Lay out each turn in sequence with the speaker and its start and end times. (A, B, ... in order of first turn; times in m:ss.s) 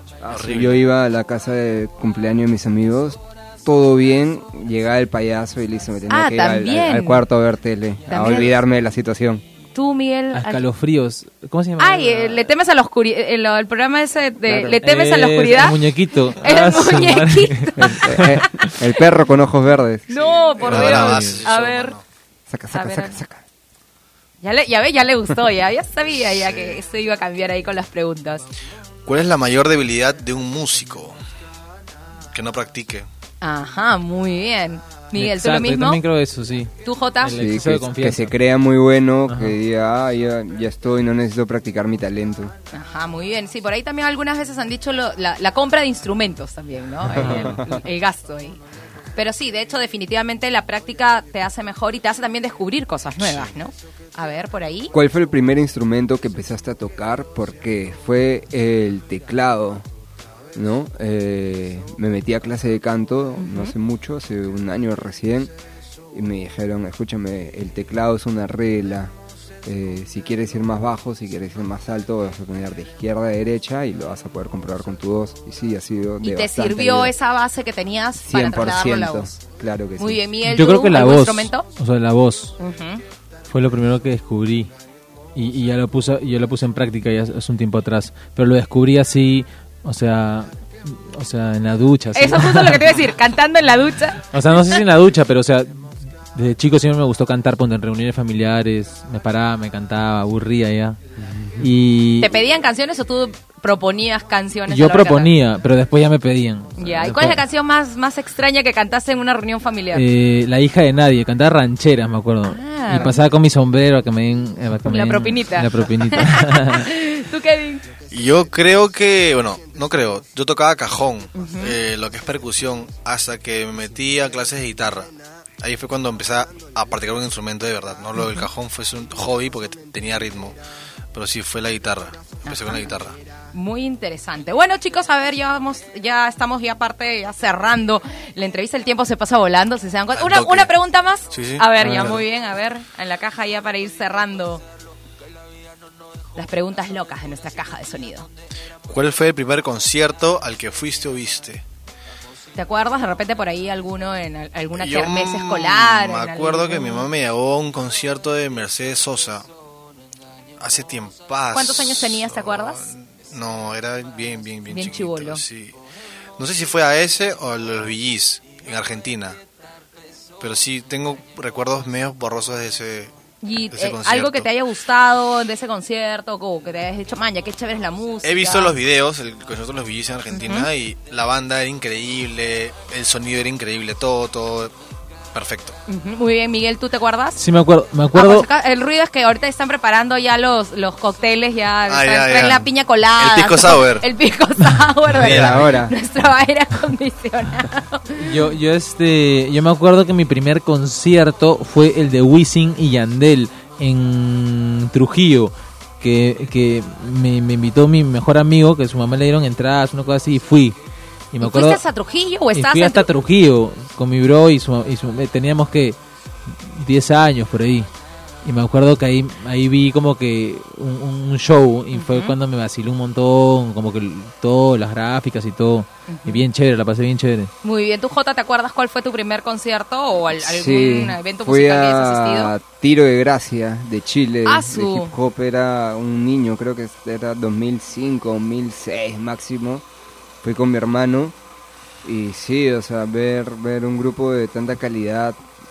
0:00.2-0:09.4 A
0:00.3-0:00.8 B
0:06.1-0:07.2 C
0:08.1-0:08.5 C
0:09.7-0:10.6 C
0:10.3-0:12.4 D
0:11.8-0:18.4 C
0:14.4-0:14.8 A
0:14.8-0:18.8 D
0:17.8-0:20.1 A
0:20.1-0:22.0 C
0:20.2-0:22.0 B
0:20.6-0:21.4 D
0:22.5-0:23.4 A
0:22.7-0:23.2 C
0:24.4-0:28.4 C
0:26.4-0:26.8 B
0:29.0-0:31.1 B
0:32.3-0:33.1 B
0:33.4-0:36.0 C
0:35.1-0:38.3 D
0:36.8-0:37.4 C
0:37.3-0:42.5 A
0:39.3-0:39.6 D
0:42.7-0:48.6 C
0:47.1-0:47.6 D
0:47.2-0:47.6 A
0:49.2-0:54.9 C
0:53.2-0:53.5 B
0:54.9-0:59.8 A
1:00.5-1:05.5 A
1:03.4-1:03.7 C
1:06.1-1:09.1 A
1:09.6-1:17.1 A
1:16.2-1:19.3 C
1:18.2-1:20.2 A
1:20.0-1:21.6 C
1:20.4-1:22.6 D
1:22.6-1:23.0 C
1:23.5-1:24.7 D
1:25.3-1:32.8 D
1:32.1-1:34.3 C
1:34.3-1:41.0 D
1:41.4-1:41.6 A
1:41.6-1:42.3 D
1:42.2-1:45.3 C
1:44.7-1:47.4 D
1:46.8-1:50.0 C
1:49.9-1:56.9 D
1:52.5-1:53.2 C
1:54.8-1:57.8 C
1:58.1-2:10.6 B
2:01.3-2:01.8 C
2:08.2-2:08.4 C
2:11.1-2:13.2 B
2:12.5-2:12.9 C
2:13.5-2:24.6 C
2:20.1-2:20.7 B
2:21.3-2:22.2 B
2:21.8-2:22.2 A
2:26.4-2:28.3 C
2:28.9-2:31.6 B
2:32.6-2:37.1 C
2:34.7-2:39.4 B
2:40.6-2:45.7 B
2:41.5-2:42.9 C
2:44.7-2:45.4 C
2:46.4-2:49.4 B
2:50.4-2:53.1 B
2:53.4-2:58.8 C
2:53.7-2:54.5 B
2:58.2-3:04.7 B
3:00.3-3:00.7 C
3:05.3-3:05.8 B
3:05.9-3:07.4 C
3:07.4-3:08.5 D
3:08.1-3:18.4 C
3:11.9-3:14.0 B
3:15.1-3:15.7 B
3:15.2-3:15.9 A
3:18.2-3:30.8 D
3:31.3-3:31.8 D
3:31.4-3:33.1 C
3:32.5-3:36.0 D
3:36.5-3:37.9 D
3:38.4-3:47.5 D
3:41.9-3:42.4 C
3:46.1-3:46.4 C
3:47.6-3:52.5 C
3:50.4-3:59.8 A
3:54.4-3:55.1 C
4:00.4-4:01.3 A
4:02.0-4:05.4 A